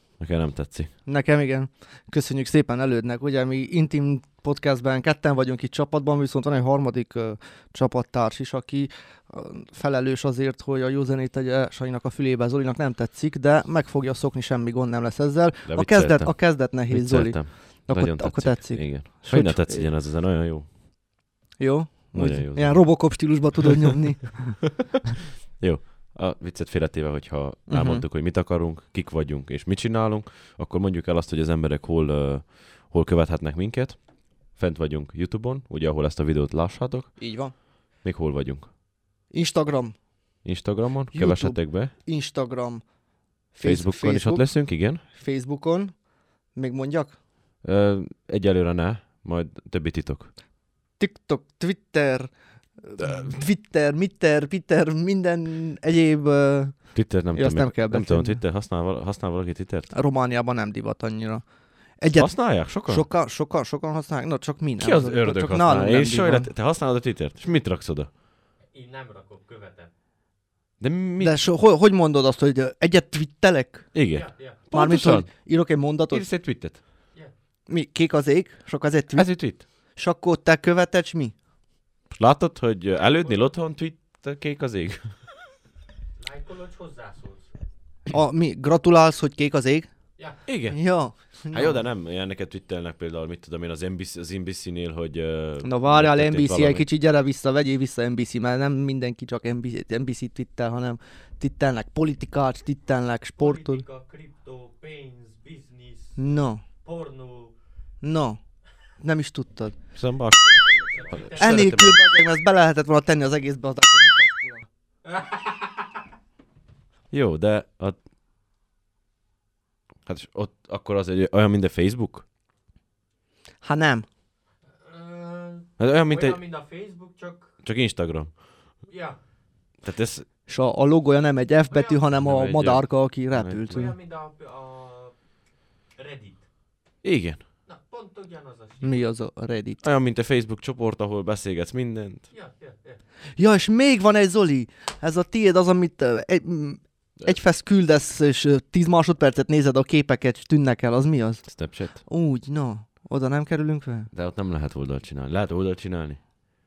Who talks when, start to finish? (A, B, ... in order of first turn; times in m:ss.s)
0:00.2-0:00.9 A
0:01.1-0:19.9 B
0:15.6-0:20.7 A
0:21.6-0:24.9 B
0:22.1-0:23.4 A
0:25.6-0:38.7 A
0:27.7-0:28.0 B
0:37.2-0:37.5 B
0:39.3-0:40.4 B
0:40.4-0:41.9 A
0:41.1-0:47.2 B
0:43.6-0:45.0 A
0:47.6-0:50.3 A
0:51.0-0:58.4 B
0:56.9-0:59.9 A
0:59.9-1:06.5 B
1:02.1-1:03.0 A
1:04.8-1:08.1 A
1:08.7-1:09.9 C
1:10.8-1:11.5 A
1:11.2-1:16.2 B
1:13.9-1:15.4 A
1:14.1-1:14.6 C
1:16.1-1:16.8 A
1:17.7-1:21.3 B
1:19.1-1:19.6 A
1:22.1-1:25.2 A
1:26.2-1:27.6 C
1:28.1-1:29.9 B
1:30.2-1:30.4 C
1:30.4-1:36.9 A
1:30.7-1:31.8 B
1:35.6-1:43.8 B
1:43.4-1:47.6 C
1:46.2-1:46.6 B
1:48.0-1:49.9 B
1:49.9-1:52.0 A
1:50.8-1:51.7 C
1:51.4-1:54.7 B
1:55.0-1:55.9 C
1:57.1-1:58.0 A
2:00.1-2:02.2 A
2:03.6-2:04.1 B
2:04.8-2:07.6 C
2:05.8-2:06.4 A
2:07.6-2:08.4 A
2:08.9-2:09.2 C
2:09.8-2:10.3 A
2:10.5-2:13.9 B
2:11.7-2:12.1 C
2:12.1-2:13.9 A
2:13.7-2:15.2 C
2:15.9-2:16.5 C
2:17.0-2:17.4 A
2:17.6-2:19.1 C
2:18.8-2:19.8 B
2:19.8-2:22.3 A
2:22.3-2:23.0 C
2:23.4-2:34.1 B
2:31.4-2:32.0 A
2:34.1-2:36.2 A